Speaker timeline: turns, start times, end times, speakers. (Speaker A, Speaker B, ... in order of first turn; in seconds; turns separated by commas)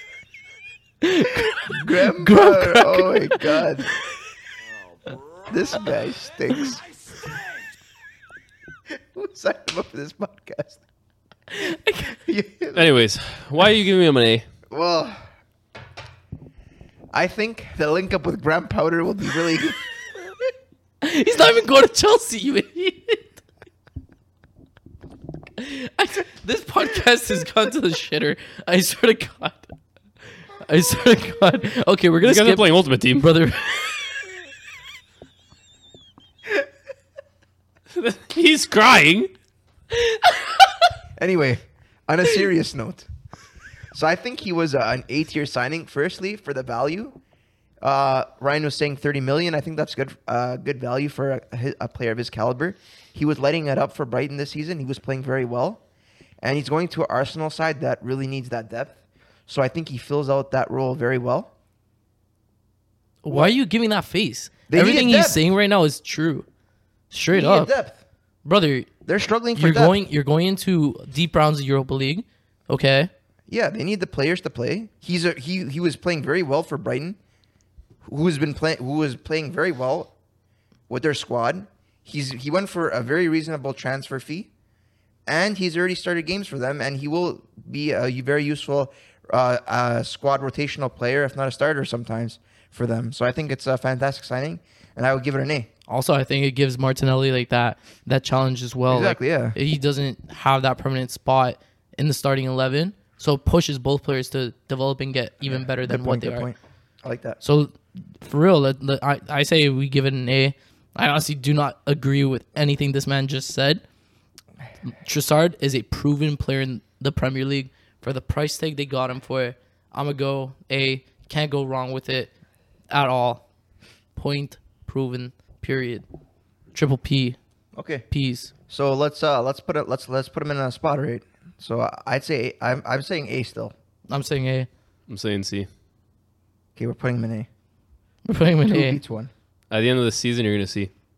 Speaker A: 1.0-3.6, Speaker B: 1.6-3.9, Speaker B: 5.5-6.8, Speaker B: 8.9-10.8, Speaker A: 11.5-12.2, Speaker B: 12.2-12.9, Speaker C: 12.7-14.4, Speaker B: 14.7-15.2, Speaker B: 17.1-19.8, Speaker A: 21.0-23.4, Speaker A: 25.6-29.7, Speaker A: 30.6-33.9, Speaker C: 32.2-33.3, Speaker C: 37.9-39.3, Speaker B: 41.2-43.1, Speaker B: 43.9-47.2, Speaker B: 47.8-55.8, Speaker B: 56.4-59.0, Speaker B: 59.5-61.5, Speaker A: 63.2-66.5, Speaker B: 63.3-63.5, Speaker B: 64.7-65.4, Speaker A: 67.1-67.7, Speaker B: 67.3-68.0, Speaker A: 68.4-68.9, Speaker B: 69.0-70.0, Speaker A: 69.5-73.1, Speaker B: 73.5-77.2, Speaker B: 78.0-80.1, Speaker B: 80.9-84.5, Speaker B: 85.2-95.7, Speaker A: 95.9-106.5, Speaker B: 98.9-99.5, Speaker B: 105.4-107.4, Speaker A: 107.4-113.8, Speaker A: 114.8-122.3, Speaker A: 122.9-123.4, Speaker A: 124.2-126.0, Speaker A: 126.7-127.4, Speaker B: 127.7-128.1, Speaker A: 128.1-128.5, Speaker B: 128.7-133.7, Speaker A: 134.1-134.7, Speaker C: 135.1-135.7, Speaker B: 136.8-137.5, Speaker A: 138.2-139.0, Speaker B: 138.6-139.3, Speaker C: 139.7-140.9